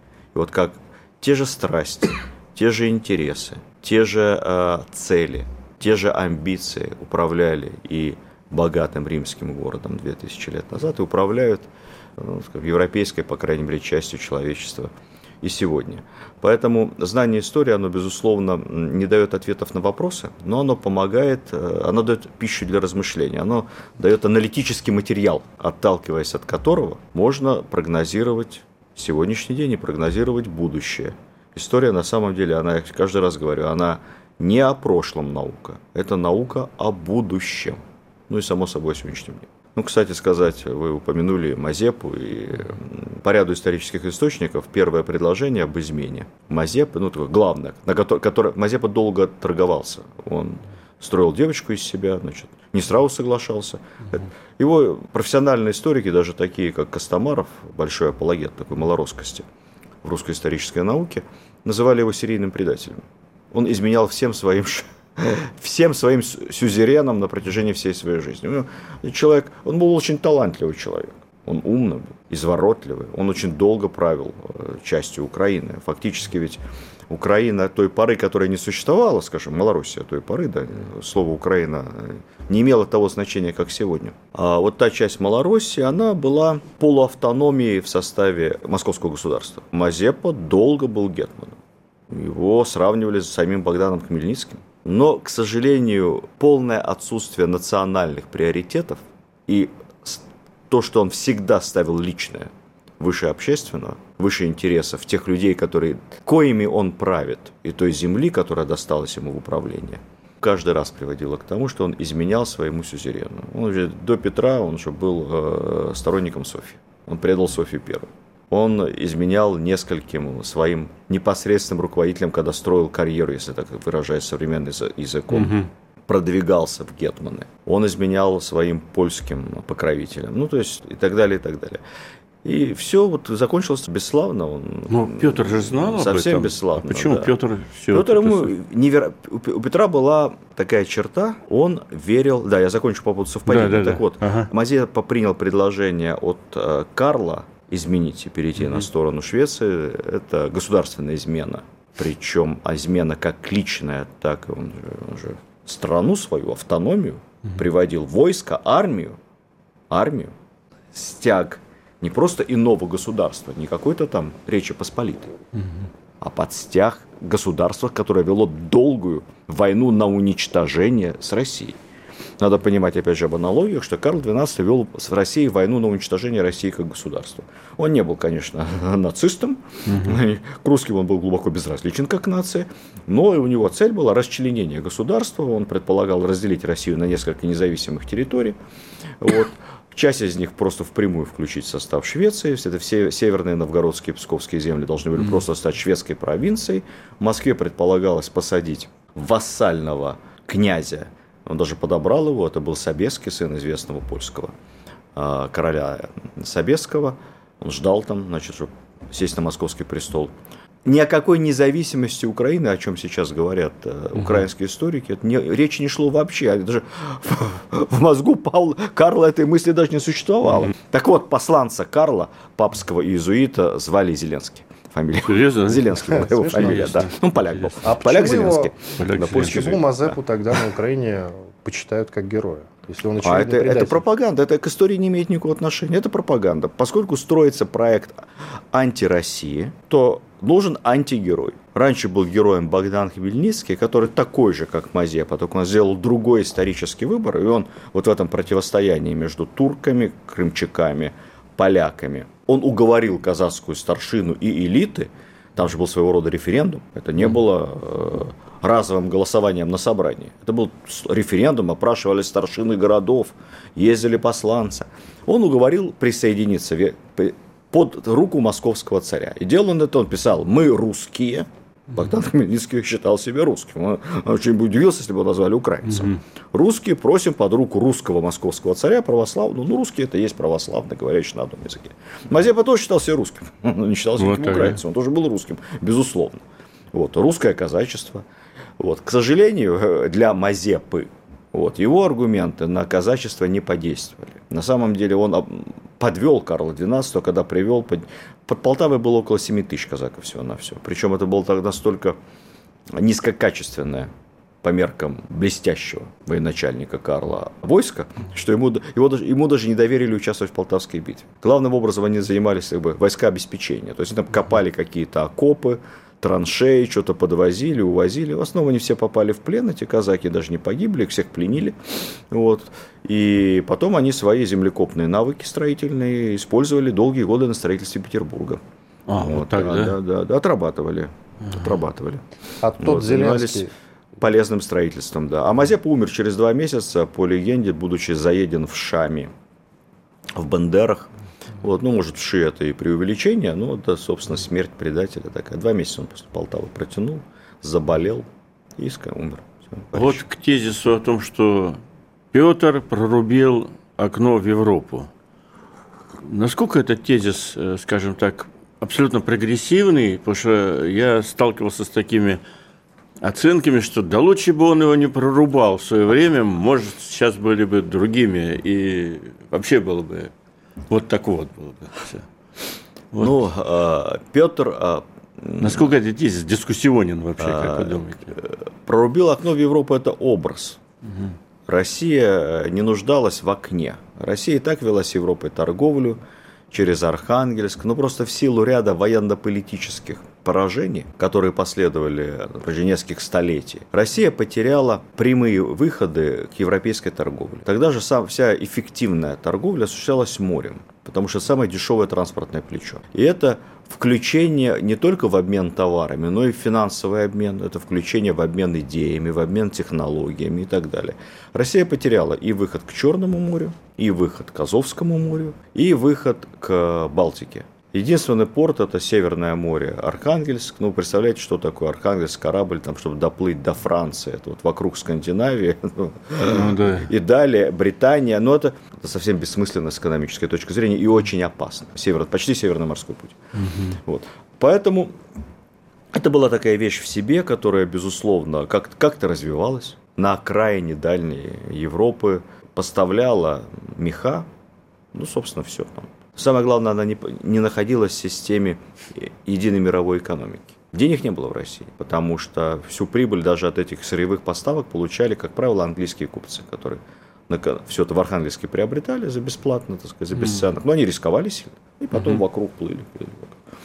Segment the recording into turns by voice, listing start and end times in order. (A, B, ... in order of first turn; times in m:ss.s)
0:00.3-0:59.5 A
1:00.0-1:31.6 A
1:32.1-2:05.6 A
2:05.3-2:05.7 B
2:06.1-2:11.8 A
2:12.4-2:17.3 A
2:14.9-2:18.5 B
2:17.9-2:39.2 A
2:23.5-2:24.5 B
2:39.9-2:40.3 A
2:40.9-2:45.3 A
2:46.2-2:51.8 A
2:52.4-3:08.6 A
2:59.9-3:00.2 B
3:09.2-3:24.5 A
3:25.2-3:30.3 A
3:30.8-3:50.2 A
3:45.3-3:47.7 B
3:46.1-3:47.0 C
3:47.8-3:48.7 C
3:49.0-3:49.8 B
3:49.3-3:54.0 C
3:53.2-4:48.2 A
4:44.2-4:44.8 B
4:48.8-5:02.2 A
5:02.9-5:04.1 A
5:04.6-5:28.6 A
5:29.1-5:30.0 B
5:29.2-5:32.2 A
5:32.6-5:33.7 C
5:32.8-5:39.3 A
5:40.4-5:41.1 A
5:41.6-5:50.2 A
5:49.9-5:51.8 B
5:52.3-5:55.1 B
5:56.2-6:02.4 B
6:03.2-6:10.3 B
6:10.9-6:12.3 B
6:13.1-6:13.4 B
6:13.2-6:15.9 A
6:15.6-6:18.4 B
6:17.4-6:20.8 A
6:21.1-6:21.3 B
6:21.7-6:26.2 A
6:26.7-7:13.4 A
7:06.4-7:07.1 B
7:13.6-7:14.0 B
7:14.0-7:15.1 A
7:16.1-7:24.5 A
7:25.1-7:43.6 A